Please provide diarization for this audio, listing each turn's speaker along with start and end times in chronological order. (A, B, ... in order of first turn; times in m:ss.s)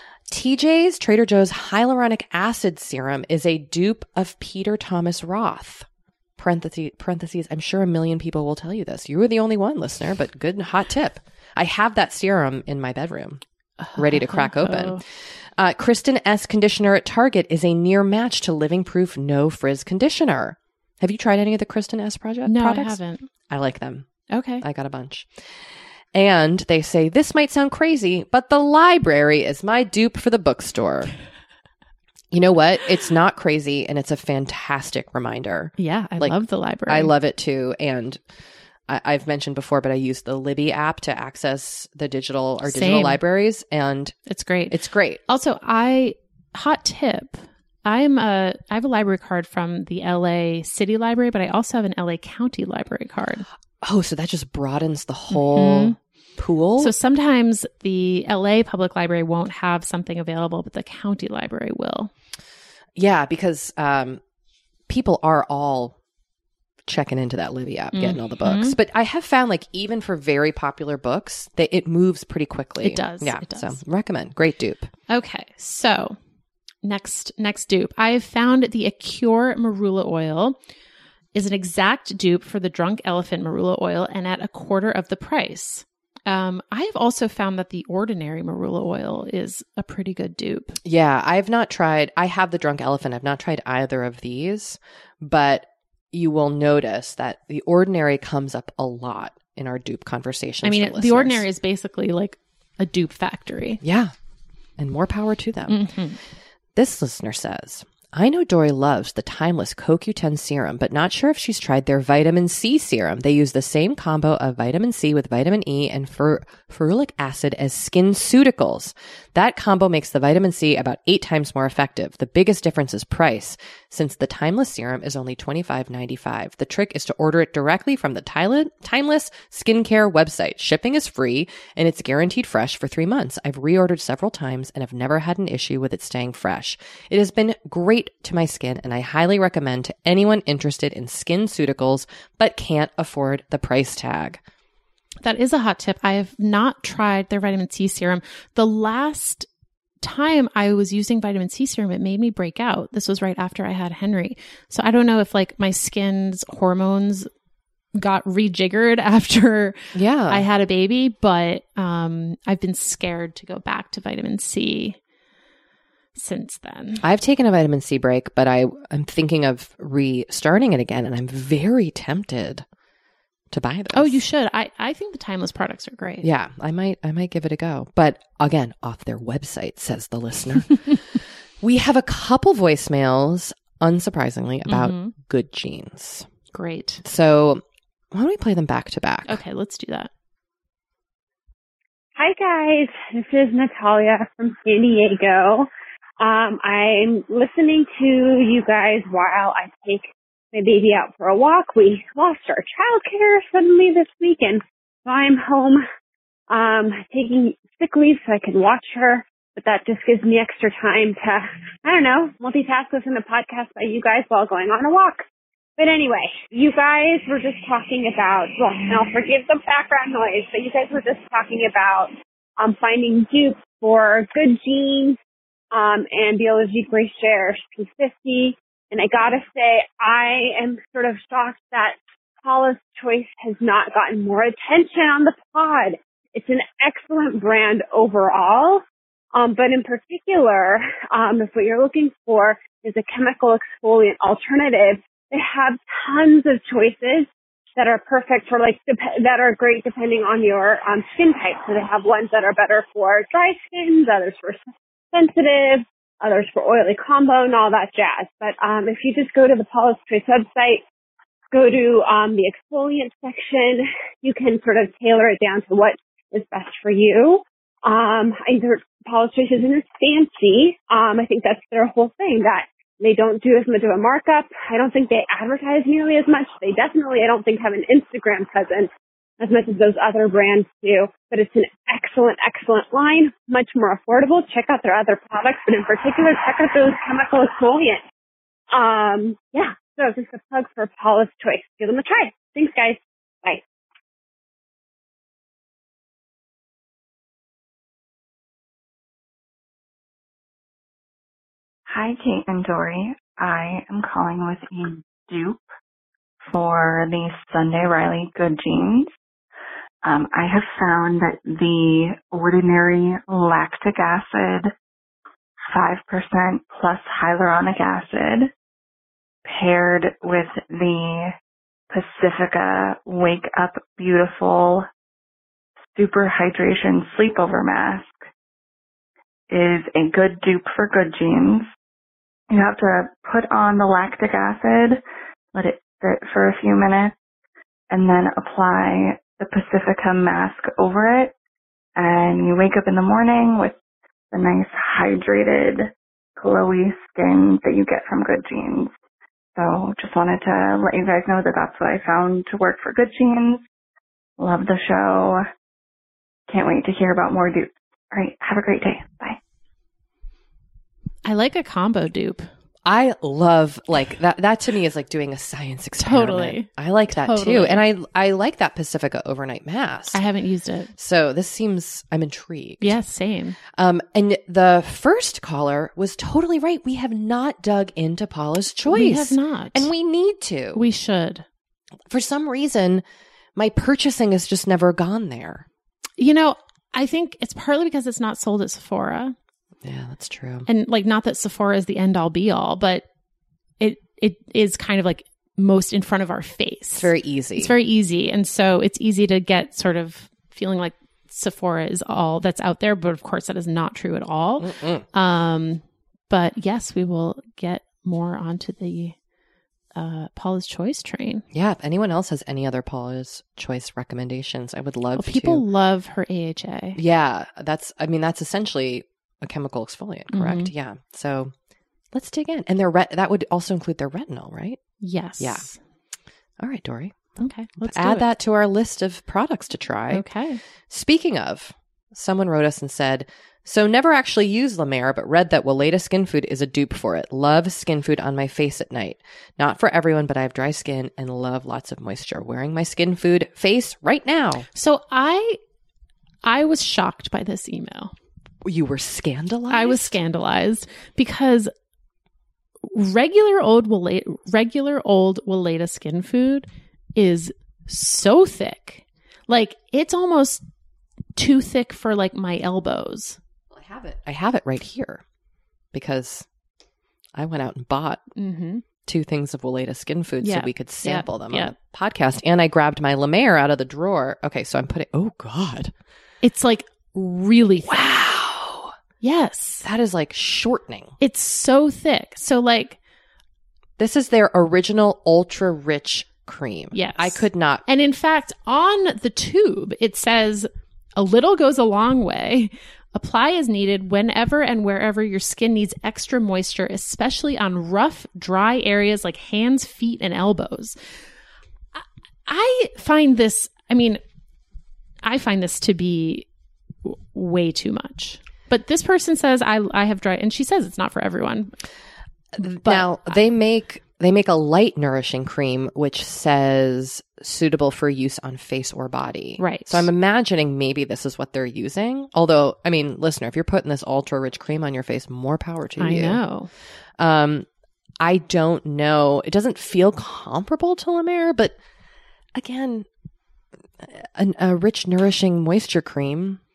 0:00.3-0:05.9 A
0:06.4-0:13.4 A
0:13.8-0:15.0 B
0:14.0-0:15.0 A
0:15.6-0:24.1 A
0:22.5-0:23.3 B
0:24.3-0:24.6 B
0:24.6-0:25.3 A
0:26.1-0:31.1 A
0:32.3-0:38.2 A
0:35.8-0:37.1 B
0:38.9-0:44.2 A
0:42.6-0:43.2 B
0:44.3-0:44.8 B
0:44.7-0:45.2 A
0:45.3-0:53.5 B
0:53.8-0:56.9 A
0:55.3-0:56.0 B
0:56.8-1:02.1 B
1:03.0-1:04.2 A
1:04.9-1:06.0 A
1:06.9-1:14.9 A
1:07.9-1:08.8 B
1:12.8-1:13.8 B
1:15.1-1:16.2 B
1:16.8-1:20.6 B
1:21.3-1:30.8 B
1:30.8-1:41.5 A
1:40.6-1:43.8 B
1:43.8-1:44.1 A
1:44.8-1:45.9 A
1:45.7-1:46.2 B
1:46.8-2:24.4 A
2:25.2-2:29.5 B
2:30.0-2:37.3 B
2:38.0-2:39.8 B
2:39.9-2:40.5 A
2:40.3-2:45.0 B
2:46.2-2:47.0 B
2:47.0-2:52.6 A
2:53.5-2:54.2 A
2:53.9-2:56.3 B
2:56.2-3:06.3 A
3:04.7-3:05.2 B
3:06.5-3:07.0 B
3:07.0-3:09.4 A
3:09.3-3:10.1 B
3:12.2-3:25.8 C
3:26.5-3:35.2 C
3:35.8-3:45.2 C
3:45.7-4:14.6 C
4:15.1-4:20.8 C
4:21.5-4:48.0 C
4:48.7-4:53.6 C
5:01.9-5:05.6 D
5:06.4-5:09.1 D
5:10.0-5:14.7 D
5:15.7-5:18.5 D
5:19.4-5:21.3 D
5:21.9-5:24.9 D
5:26.0-5:28.2 D
5:29.5-5:31.7 D
5:32.5-5:35.0 D
5:35.5-5:37.1 D
5:37.9-5:41.3 D
5:42.0-5:43.8 D
5:44.3-5:48.9 D
5:49.6-5:53.6 D
5:54.4-5:55.4 D
5:56.5-5:59.4 D
6:01.2-6:02.5 B
6:02.8-6:10.2 A
6:06.0-6:07.8 B
6:10.1-6:10.9 B
6:11.0-6:13.0 A
6:12.8-6:13.6 B
6:13.7-6:20.9 A
6:18.9-6:19.9 B
6:20.7-6:21.4 B
6:22.1-6:23.0 A
6:23.6-6:25.7 A
6:26.2-6:29.4 B
6:29.8-6:30.7 A
6:30.7-6:33.1 B
6:33.8-6:49.2 B
6:37.0-6:37.8 A
6:44.6-6:45.1 A
6:50.0-6:51.4 B
6:51.5-6:55.6 A
6:55.2-6:57.0 B
6:57.0-7:01.5 A
7:00.3-7:00.7 B
7:02.1-7:04.8 A
7:05.0-7:05.8 B
7:05.4-7:05.7 A
7:06.6-7:10.3 A
7:07.4-7:08.2 B
7:10.1-7:10.6 B
7:10.9-7:24.7 A
7:24.8-7:25.6 B
7:26.4-7:28.1 B
7:28.6-7:30.2 A
7:29.7-7:31.7 B
7:32.9-7:40.6 B
7:41.4-7:43.4 B
7:43.7-7:45.2 A
7:45.9-7:46.5 A
7:47.3-7:48.2 A
7:48.4-7:48.8 B
7:49.1-7:55.9 A
7:50.4-7:51.7 B
7:56.4-7:58.1 B
7:57.8-7:58.9 A
7:59.2-7:59.8 B
7:59.8-8:01.1 A
8:01.2-8:03.0 B
8:04.0-8:07.8 A
8:06.9-8:21.0 B
8:22.0-8:24.2 B
8:25.2-8:26.5 B
8:27.0-8:31.7 B
8:32.6-8:46.4 A
8:32.6-8:33.4 B
8:39.6-8:40.1 B
8:46.0-8:46.7 B
8:47.2-8:47.7 A
8:48.2-8:51.8 A
8:52.6-8:53.1 A
8:54.0-8:56.6 A